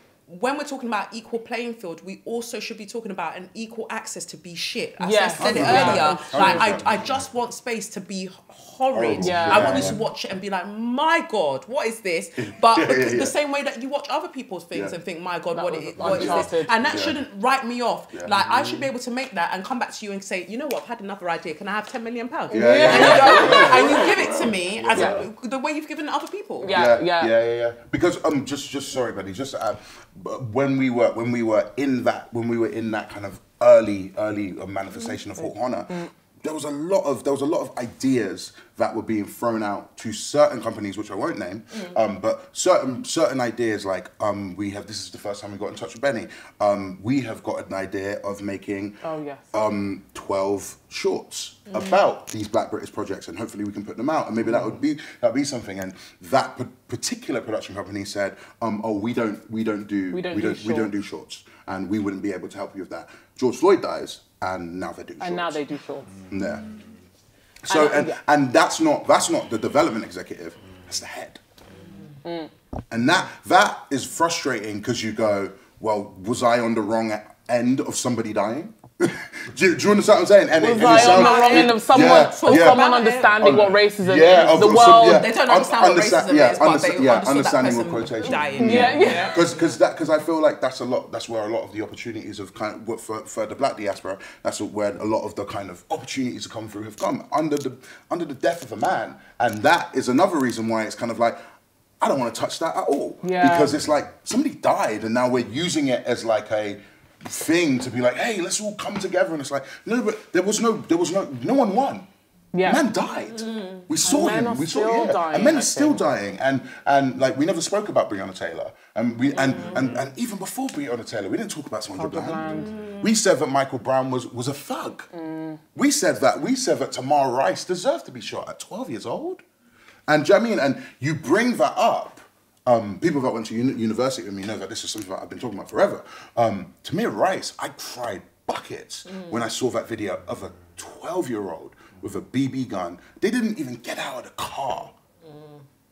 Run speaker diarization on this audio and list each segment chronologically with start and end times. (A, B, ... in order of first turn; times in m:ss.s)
0:00.3-0:26.8 A
0:05.0-0:06.7 B
0:05.4-0:07.2 C
0:08.9-0:10.0 C
0:09.2-0:10.0 B
0:12.4-0:13.3 C
0:15.5-0:16.8 B
0:16.0-0:17.2 C
0:18.1-0:18.9 C
0:22.5-0:23.9 B
0:22.5-0:25.3 C
0:26.6-0:27.3 B
0:26.6-0:49.0 C
0:35.4-0:36.1 B
0:49.0-0:49.5 B
0:49.5-1:05.6 C
0:51.7-0:52.0 A
1:00.1-1:00.9 B
1:05.2-1:06.2 B
1:06.3-1:06.7 C
1:07.6-1:11.4 C
1:07.7-1:08.2 B
1:12.2-1:12.5 B
1:12.9-1:41.4 C
1:20.6-1:25.3 B
1:20.7-1:23.7 A
1:24.3-1:29.6 A
1:28.4-1:29.4 B
1:42.0-1:52.1 C
1:43.2-1:43.7 B
1:52.5-1:52.8 B
1:52.6-2:05.1 C
1:53.0-1:54.1 A
1:54.0-1:56.0 B
1:59.3-1:59.8 B
1:59.6-1:59.9 A
2:02.0-2:02.7 B
2:02.5-2:03.1 A
2:05.1-2:05.6 B
2:05.7-2:09.4 C
2:10.1-2:25.0 C
2:19.1-2:19.4 A